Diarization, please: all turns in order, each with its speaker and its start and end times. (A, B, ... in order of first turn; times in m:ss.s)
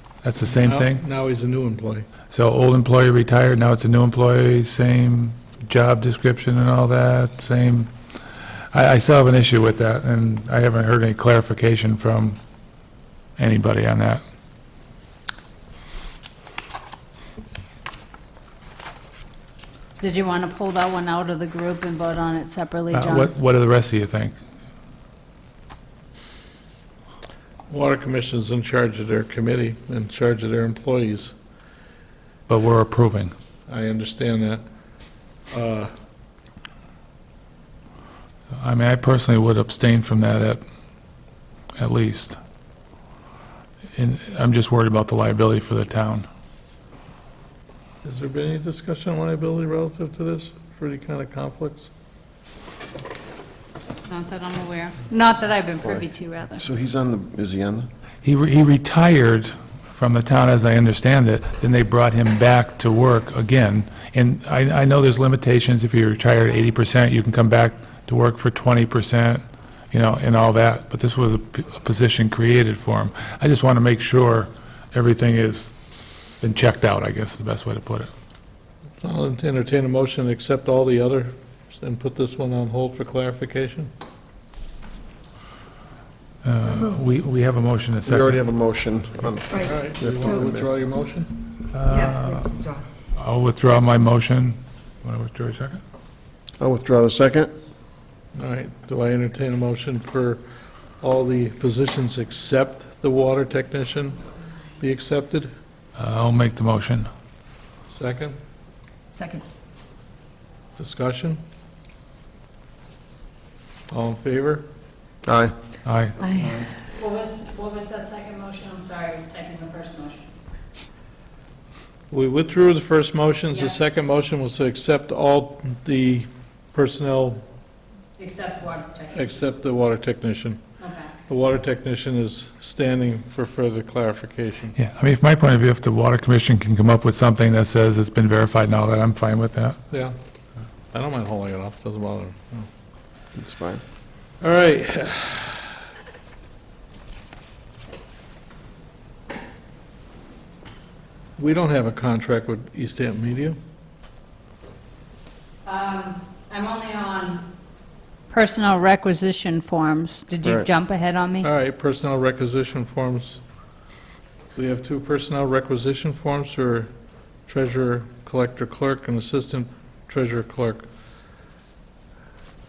0:00.2-0:01.0 A
0:00.5-0:02.1 B
0:02.3-0:07.9 A
0:08.7-0:12.4 A
0:13.4-0:14.2 A
0:20.0-0:23.3 C
0:22.9-0:24.4 A
0:27.7-0:31.3 B
0:32.5-0:33.3 A
0:33.7-0:34.6 B
0:35.5-0:35.9 B
0:38.5-0:40.6 A
0:41.8-0:42.4 A
0:44.0-0:46.3 A
0:48.0-0:51.9 B
0:54.1-0:56.6 C
0:56.6-0:57.9 D
0:58.2-1:15.7 A
1:16.4-1:18.1 A
1:19.0-1:23.9 B
1:26.4-1:28.4 A
1:28.1-1:30.7 D
1:29.5-1:30.3 E
1:29.6-1:31.3 B
1:31.7-1:32.6 A
1:31.9-1:32.8 E
1:33.1-1:35.8 A
1:36.6-1:37.5 D
1:38.4-1:40.4 B
1:41.0-1:44.2 B
1:44.8-1:45.5 B
1:46.0-1:47.1 A
1:47.9-1:48.4 B
1:49.1-1:49.4 E
1:50.8-1:51.4 B
1:53.9-1:54.7 B
1:55.2-1:55.5 D
1:55.8-1:56.2 A
1:56.2-1:56.6 E
1:57.0-2:00.3 C
2:02.1-2:07.4 B
2:03.5-2:03.8 C
2:08.2-2:09.2 C
2:09.1-2:10.6 B
2:10.8-2:11.1 C
2:11.3-2:14.8 B
2:14.8-2:19.8 A
2:20.9-2:22.7 B
2:23.4-2:23.8 D
2:24.4-2:25.7 B
2:31.4-2:33.6 B
2:35.6-2:37.4 C
2:38.3-2:41.5 C
2:41.4-2:43.4 B
2:44.6-2:46.9 B
2:47.5-2:50.9 B